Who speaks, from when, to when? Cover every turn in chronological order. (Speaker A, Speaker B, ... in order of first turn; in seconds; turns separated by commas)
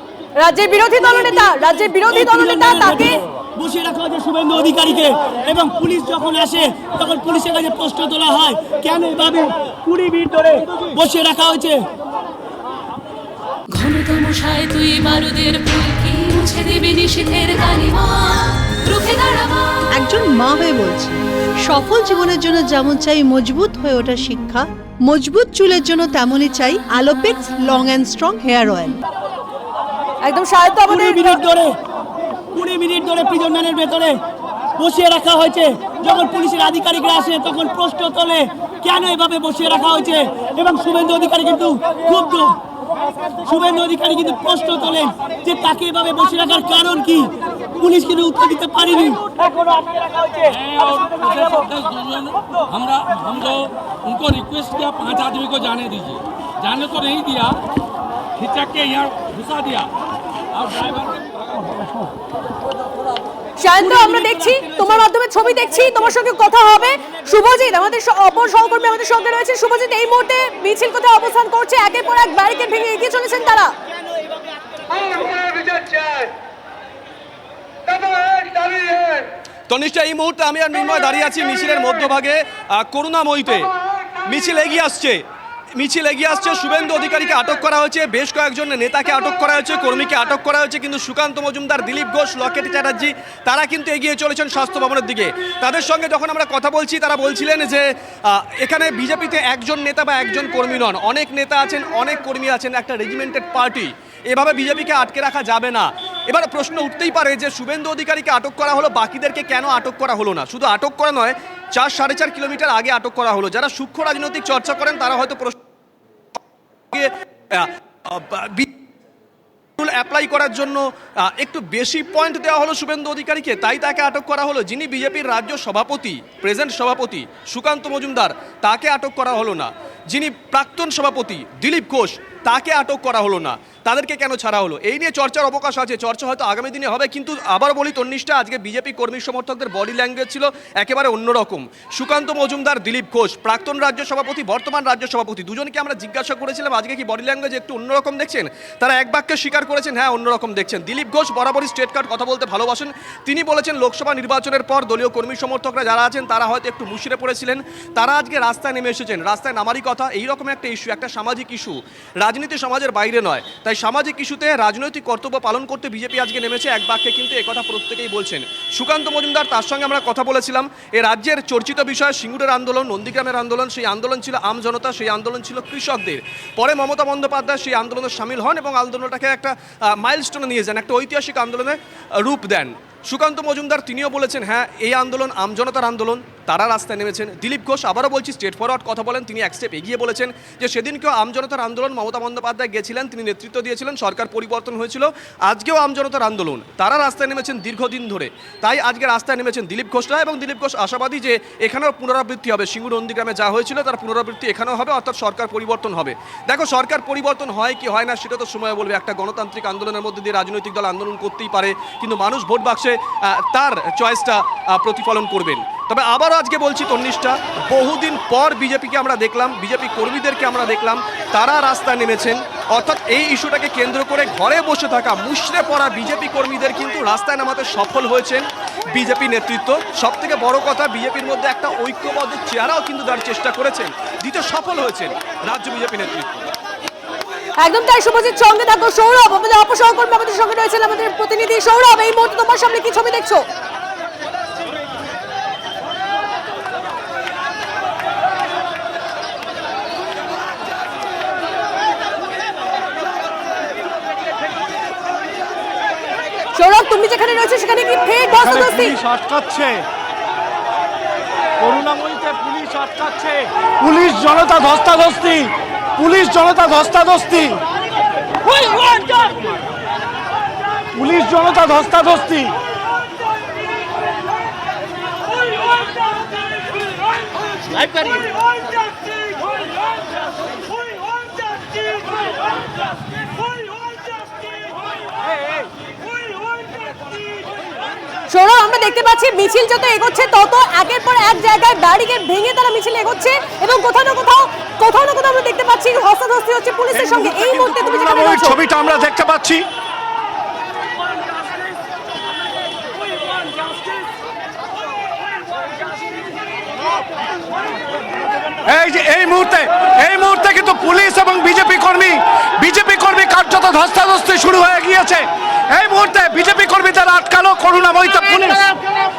Speaker A: 0.4-3.2, Speaker B: 1.1-1.4, Speaker B: 1.9-11.8, Speaker C: 13.7-19.8, Speaker D: 19.9-29.0, Speaker A: 30.2-31.4, Speaker B: 30.9-31.7, Speaker B: 32.5-34.2, Speaker B: 34.8-42.6, Speaker B: 43.2-51.6, Speaker E: 50.5-57.6, Speaker E: 58.4-59.9, Speaker B: 58.7-59.5, Speaker B: 60.6-61.1, Speaker A: 63.6-73.7, Speaker B: 63.8-65.0, Speaker F: 79.7-83.7, Speaker F: 84.2-85.2, Speaker F: 85.8-115.6, Speaker F: 116.9-118.7, Speaker F: 119.8-236.5, Speaker A: 237.6-243.4, Speaker A: 256.5-258.9, Speaker G: 258.4-259.8, Speaker G: 261.6-267.6, Speaker G: 268.8-269.2, Speaker G: 270.9-272.5, Speaker A: 288.3-298.6, Speaker G: 296.9-299.6, Speaker G: 308.6-318.8